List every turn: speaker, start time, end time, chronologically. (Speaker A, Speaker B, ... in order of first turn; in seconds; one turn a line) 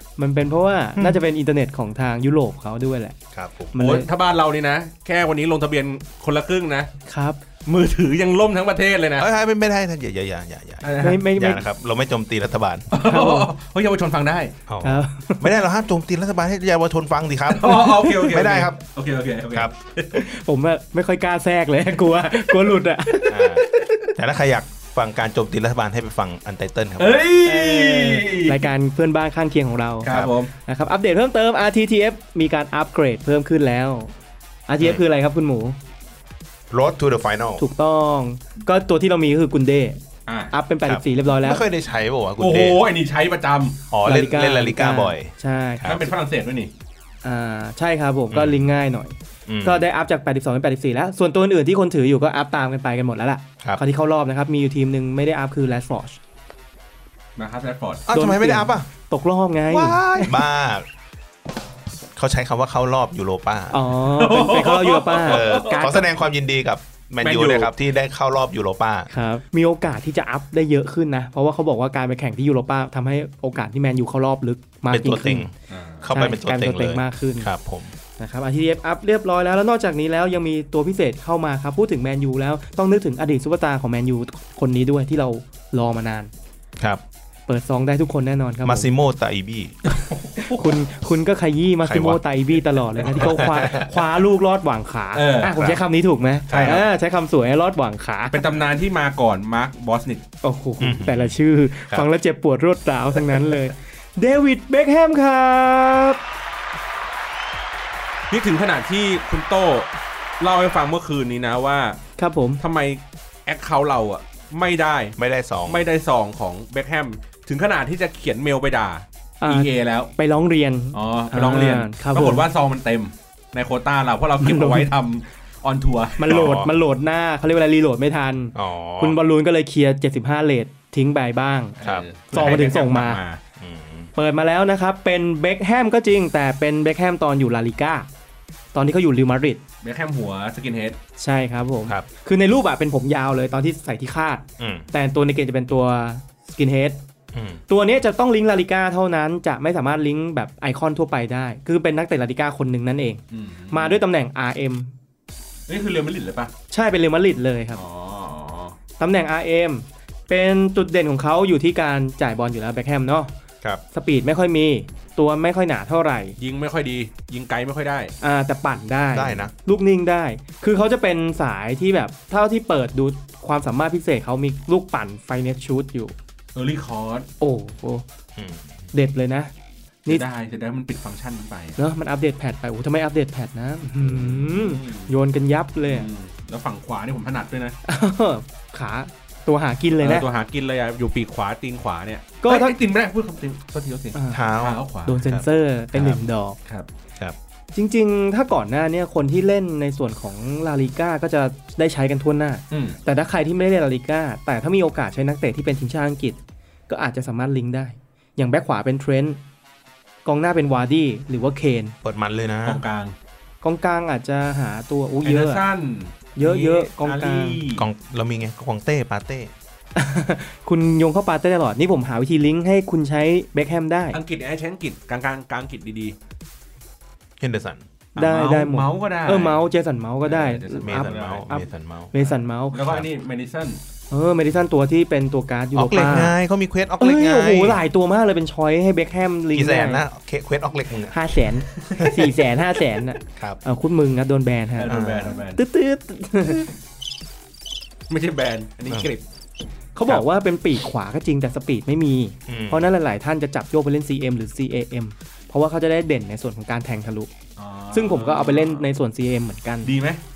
Speaker A: 0.2-3.1
Speaker B: 3.3-3.7
Speaker A: 3.7-4.1
Speaker C: 3.7-6.9
Speaker A: 7.0-7.4
Speaker C: 7.7-9.3
Speaker B: 9.2-12.9
Speaker C: 10.8-11.2
Speaker A: 11.0-11.6
Speaker C: 12.9-14.5
Speaker A: 13.0-13.5
Speaker B: 14.7-18.8
Speaker A: 14.8-15.5
Speaker C: 17.5-20.3
Speaker A: 17.6-18.3
Speaker A: 20.1-23.9
Speaker B: 23.3-23.6
Speaker B: 24.1-27.2
Speaker C: 27.0-28.6
Speaker A: 27.4-34.1
Speaker C: 30.0-30.5
Speaker B: 30.1-30.3
Speaker A: 34.7-35.8
Speaker B: 36.7-37.6
Speaker A: 37.6-40.0
Speaker C: 40.3-40.5
Speaker A: 40.5-41.6
Speaker B: 40.8-42.8
Speaker C: 42.4-43.8
Speaker B: 43.9-46.1
Speaker A: 44.0-45.9
Speaker C: 45.8-46.7
Speaker A: 47.2-56.2
Speaker B: 48.3-48.6
Speaker B: 49.5-49.8
Speaker C: 57.4-58.0
Speaker B: 58.1-58.9
Speaker A: 58.1-60.4
Speaker B: 59.7-60.9
Speaker B: 62.1-63.8
Speaker A: 63.7-66.0
Speaker C: 64.1-66.0
Speaker B: 65.2-69.1
Speaker C: 67.2-67.7
Speaker A: 69.1-75.5
Speaker B: 74.9-77.9
Speaker C: 75.7-76.1
Speaker A: 76.1-77.5
Speaker A: 78.2-86.3
Speaker A: 87.5-88.9
Speaker B: 88.6-90.5
Speaker A: 90.4-98.5
Speaker B: 91.8-92.2
Speaker B: 93.0-93.9
Speaker C: 95.1-95.6
Speaker B: 95.5-95.8
Speaker B: 96.5-96.8
Speaker C: 96.5-96.8
Speaker C: 98.3-100.2
Speaker A: 100.4-106.2
Speaker B: 100.8-101.4
Speaker C: 108.3-109.9
Speaker C: 110.4-112.0
Speaker A: 112.2-112.6
Speaker C: 112.6-115.1
Speaker B: 115.2-115.9
Speaker C: 115.7-120.1
Speaker A: 119.4-122.5
Speaker C: 120.9-126.7
Speaker A: 124.4-124.9
Speaker A: 126.2-131.7
Speaker B: 126.3-126.6
Speaker B: 128.5-129.2
Speaker C: 131.8-133.4
Speaker B: 131.8-132.1
Speaker A: 132.3-133.2
Speaker B: 133.6-134.1
Speaker A: 134.2-138.1
Speaker A: 138.7-139.6
Speaker C: 139.8-141.0
Speaker A: 141.2-147.0
Speaker B: 144.6-144.9
Speaker B: 147.3-147.6
Speaker A: 147.7-154.9
Speaker C: 153.3-154.0
Speaker C: 155.7-156.5
Speaker A: 156.7-157.8
Speaker C: 157.8-158.8
Speaker A: 159.0-163.3
Speaker A: 163.9-166.3
Speaker C: 166.4-168.1
Speaker A: 168.2-176.1
Speaker B: 169.1-169.5
Speaker C: 176.5-177.3
Speaker A: 177.4-178.0
Speaker B: 178.3-178.7
Speaker A: 178.9-179.5
Speaker C: 180.1-181.8
Speaker A: 181.8-186.1
Speaker C: 184.0-185.1
Speaker C: 185.8-187.8
Speaker A: 187.8-190.3
Speaker C: 190.0-195.2
Speaker A: 192.4-192.8
Speaker A: 194.1-194.4
Speaker B: 194.3-196.2
Speaker A: 195.1-196.6
Speaker A: 197.7-206.4
Speaker C: 202.7-203.0
Speaker A: 206.9-209.4
Speaker A: 210.2-211.9
Speaker B: 212.0-212.8
Speaker C: 212.6-213.1
Speaker A: 213.6-215.6
Speaker C: 215.2-217.8
Speaker A: 216.3-217.6
Speaker B: 217.7-219.5
Speaker A: 219.9-224.2
Speaker C: 224.1-226.1
Speaker B: 227.4-227.8
Speaker C: 228.2-229.6
Speaker A: 228.2-232.8
Speaker C: 230.2-231.5
Speaker B: 230.8-232.1
Speaker C: 232.7-233.8
Speaker A: 234.1-236.4
Speaker B: 235.7-237.8
Speaker A: 237.0-240.0
Speaker B: 239.5-241.2
Speaker A: 241.1-245.0
Speaker B: 241.9-242.3
Speaker B: 243.2-243.6
Speaker C: 244.8-245.6
Speaker B: 244.9-245.4
Speaker A: 245.5-246.7
Speaker C: 248.1-249.2
Speaker A: 249.9-257.3
Speaker B: 252.5-252.9
Speaker C: 257.6-258.9
Speaker A: 257.9-259.9
Speaker C: 259.8-260.2